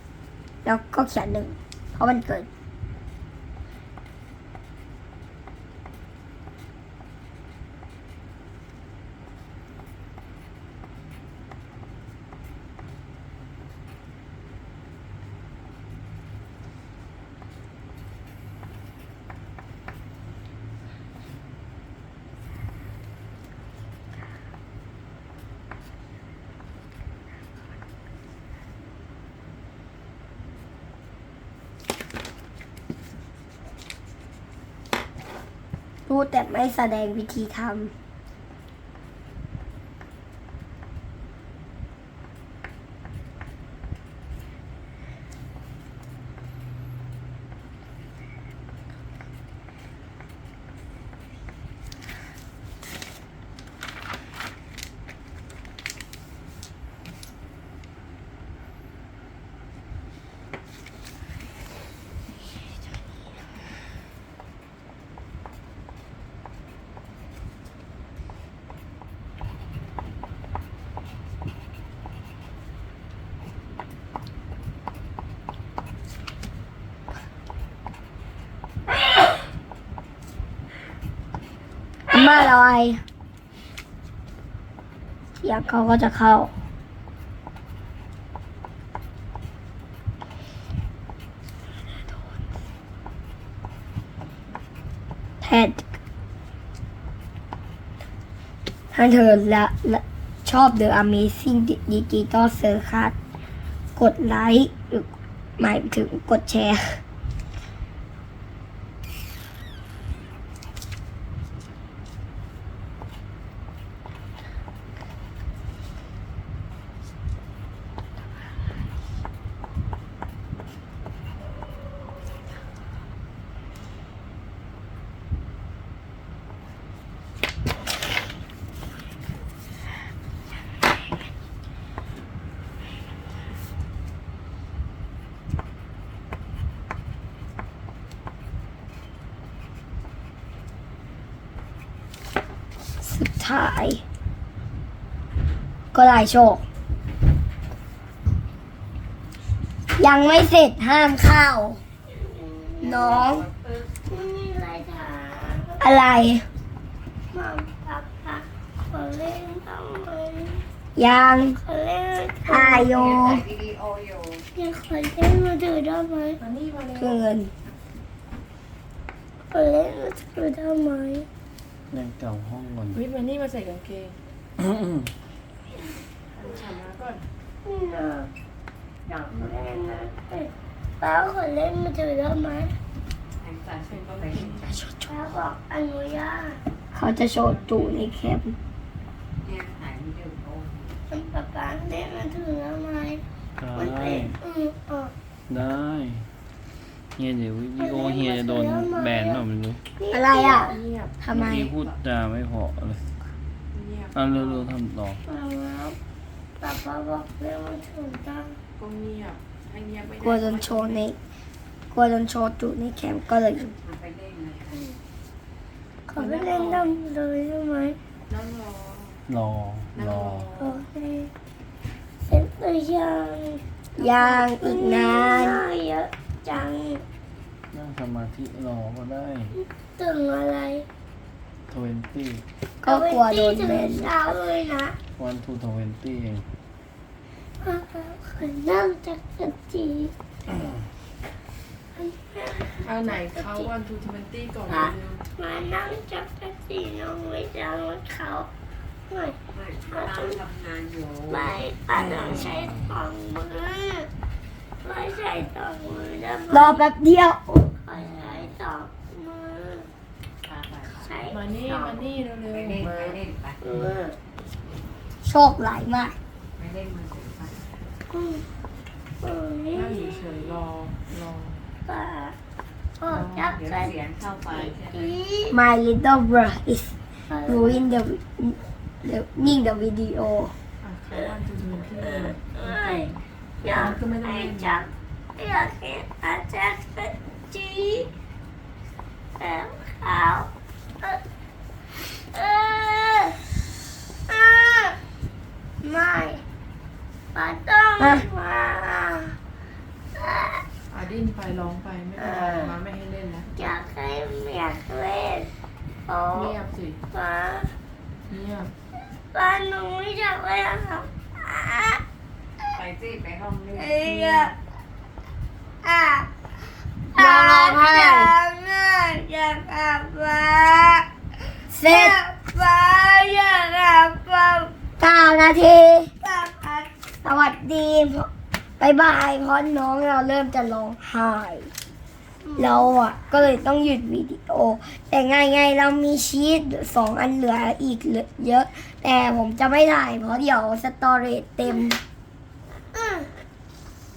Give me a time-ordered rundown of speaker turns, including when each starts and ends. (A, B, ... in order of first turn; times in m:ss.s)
0:00.6-0:02.5 A
0:36.1-0:37.9 A
1:22.1-1:23.0 A
1:25.4-1:26.5 A
1:35.4-1:35.8 A
1:38.9-1:43.1 A
1:44.0-1:45.1 A
1:45.6-1:47.0 A
2:23.0-2:24.0 A
2:25.9-2:26.6 A
2:30.0-2:31.8 A
2:32.1-2:33.3 B
2:32.8-2:33.4 A
2:33.2-2:33.9 C
2:34.1-2:35.8 B
2:35.8-2:36.4 A
2:37.3-2:40.6 B
2:41.0-2:41.6 A
2:41.6-2:42.9 B
2:42.4-2:43.4 A
2:42.7-2:44.4 C
2:44.5-2:46.4 B
2:46.4-2:47.2 D
2:47.0-2:47.5 A
2:49.5-2:51.2 B
2:51.9-2:53.0 E
2:52.9-2:54.2 D
2:54.6-2:54.9 E
2:56.3-2:57.2 D
2:57.6-2:58.3 B
2:59.1-3:02.7 B
3:03.4-3:04.8 C
3:03.9-3:04.8 D
3:05.0-3:06.6 B
3:06.9-3:08.6 A
3:09.4-3:11.0 C
3:11.1-3:13.2 B
3:13.6-3:14.4 E
3:13.7-3:15.1 B
3:15.5-3:16.3 E
3:17.2-3:19.8 E
3:17.8-3:19.4 B
3:19.9-3:20.7 B
3:20.1-3:21.7 A
3:20.4-3:21.9 D
3:21.3-3:23.3 E
3:23.7-3:24.8 D
3:24.1-3:25.2 E
3:25.2-3:26.0 B
3:26.6-3:28.6 B
3:28.8-3:31.1 D
3:30.2-3:31.2 A
3:31.9-3:33.7 A
3:33.8-3:34.9 C
3:36.1-3:38.0 B
3:36.1-3:37.0 D
3:38.3-3:39.2 D
3:39.3-3:40.5 E
3:39.9-3:40.8 D
3:40.6-3:41.3 B
3:42.2-3:47.0 B
3:44.0-3:45.6 A
3:47.7-3:49.6 E
3:49.6-3:50.8 B
3:51.7-3:52.4 E
3:52.8-3:54.1 A
3:52.8-3:55.0 B
3:55.2-3:56.5 E
3:57.6-4:00.1 B
4:01.9-4:03.7 B
4:02.7-4:05.2 D
4:04.7-4:08.5 B
4:09.1-4:09.4 B
4:09.5-4:11.6 C
4:09.9-4:10.4 B
4:11.3-4:14.1 B
4:14.8-4:16.8 B
4:16.5-4:17.6 A
4:17.6-4:19.9 B
4:20.4-4:21.1 C
4:21.0-4:22.0 B
4:21.3-4:23.2 D
4:22.5-4:23.6 C
4:23.6-4:24.2 B
4:25.2-4:26.2 A
4:26.6-4:27.6 C
4:28.1-4:28.4 B
4:29.2-4:30.2 B
4:29.7-4:31.6 D
4:31.8-4:32.4 B
4:33.0-4:33.9 B
4:33.3-4:35.2 C
4:34.5-4:35.6 B
4:35.5-4:40.5 A
4:37.3-4:37.8 B
4:40.8-4:43.1 D
4:42.0-4:43.1 B
4:43.6-4:48.1 B
4:43.7-4:44.9 D
4:49.4-4:51.2 B
4:51.9-4:55.0 B
4:55.8-4:56.4 B
4:57.3-4:59.4 B
4:58.0-4:58.2 A
5:00.1-5:00.7 B
5:00.9-5:03.5 D
5:02.2-5:02.7 B
5:03.5-5:05.5 B
5:06.0-5:06.5 B
5:06.3-5:07.0 D
5:07.1-5:07.8 B
5:08.3-5:08.7 D
5:09.2-5:12.0 B
5:12.7-5:14.5 C
5:13.8-5:14.5 A
5:13.8-5:14.1 B
5:15.8-5:16.3 A
5:17.1-5:20.4 A
5:17.2-5:18.3 D
5:20.2-5:21.0 B
5:21.7-5:28.3 A
5:28.8-5:31.7 A
5:32.5-5:32.9 B
5:32.6-5:42.0 A
5:42.9-5:43.2 B